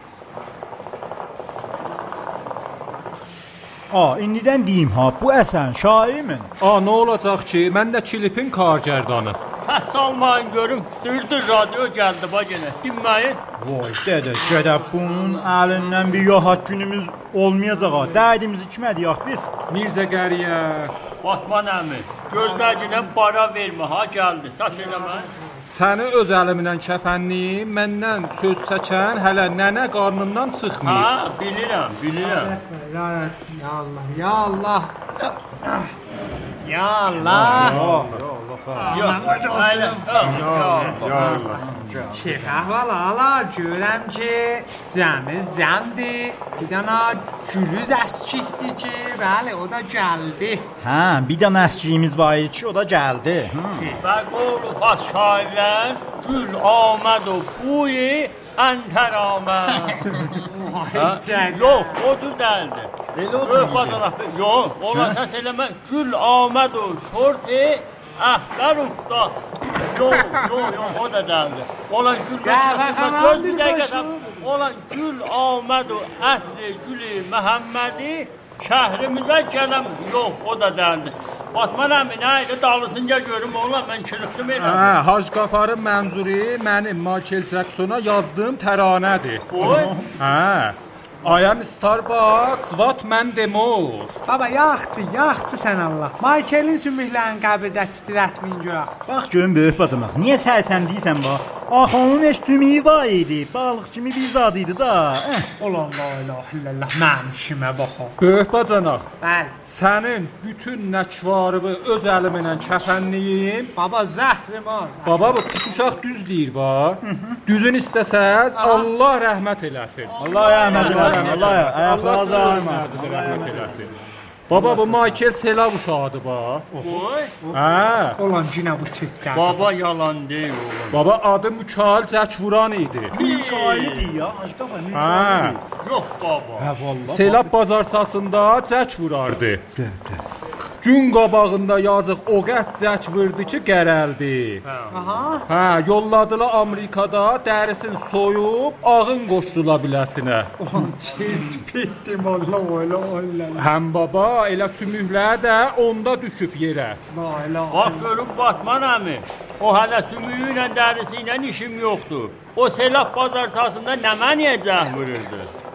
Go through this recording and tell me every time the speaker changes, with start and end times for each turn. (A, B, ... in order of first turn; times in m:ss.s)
0:03.9-0:06.5 A
0:06.6-0:09.4 B
0:09.6-0:13.4 C
0:13.6-0:19.5 A
0:19.7-0:21.0 B
0:21.2-0:25.3 C
0:22.3-0:23.1 D
0:24.8-0:25.6 D
0:25.7-0:31.1 B
0:30.8-0:32.6 C
0:32.2-0:35.9 D
0:36.6-0:37.9 D
0:37.3-0:38.9 A
0:37.3-0:38.2 B
0:38.8-0:40.3 D
0:38.9-0:41.6 C
0:40.2-0:41.6 B
0:41.2-0:42.3 A
0:42.1-0:50.7 D
0:50.8-0:54.0 A
0:54.0-1:00.0 C
1:00.0-1:02.0 D
1:00.9-1:25.0 C
1:03.1-1:04.0 A
1:12.4-1:14.4 D
1:24.5-1:34.2 B
1:29.5-1:29.9 C
1:29.6-1:30.1 A
1:34.2-1:39.0 D
1:39.1-1:45.5 A
1:45.6-1:48.2 D
1:48.2-1:49.1 B
1:49.2-1:49.6 D
1:49.6-1:53.7 B
1:53.8-1:55.4 D
1:55.0-2:03.9 B
1:57.0-1:57.4 A
1:58.5-1:58.9 D
2:00.1-2:01.6 C
2:00.2-2:03.9 A
2:04.5-2:06.7 B
2:04.5-2:05.2 A
2:06.7-2:07.6 A
2:06.8-2:07.4 C
2:07.5-2:08.2 B
2:08.2-2:09.7 D
2:09.3-2:11.0 C
2:10.9-2:13.1 B
2:13.1-2:15.6 A
2:13.1-2:14.1 C
2:14.9-2:15.6 B
2:15.8-2:16.7 C
2:16.6-2:17.5 A
2:17.1-2:19.7 B
2:19.8-2:20.2 A
2:20.8-2:24.6 B
2:24.6-2:24.9 C
2:24.9-2:25.5 D
2:25.5-2:30.5 B
2:30.6-2:33.7 D
2:33.6-2:37.0 B
2:37.1-2:38.1 D
2:37.7-2:45.5 C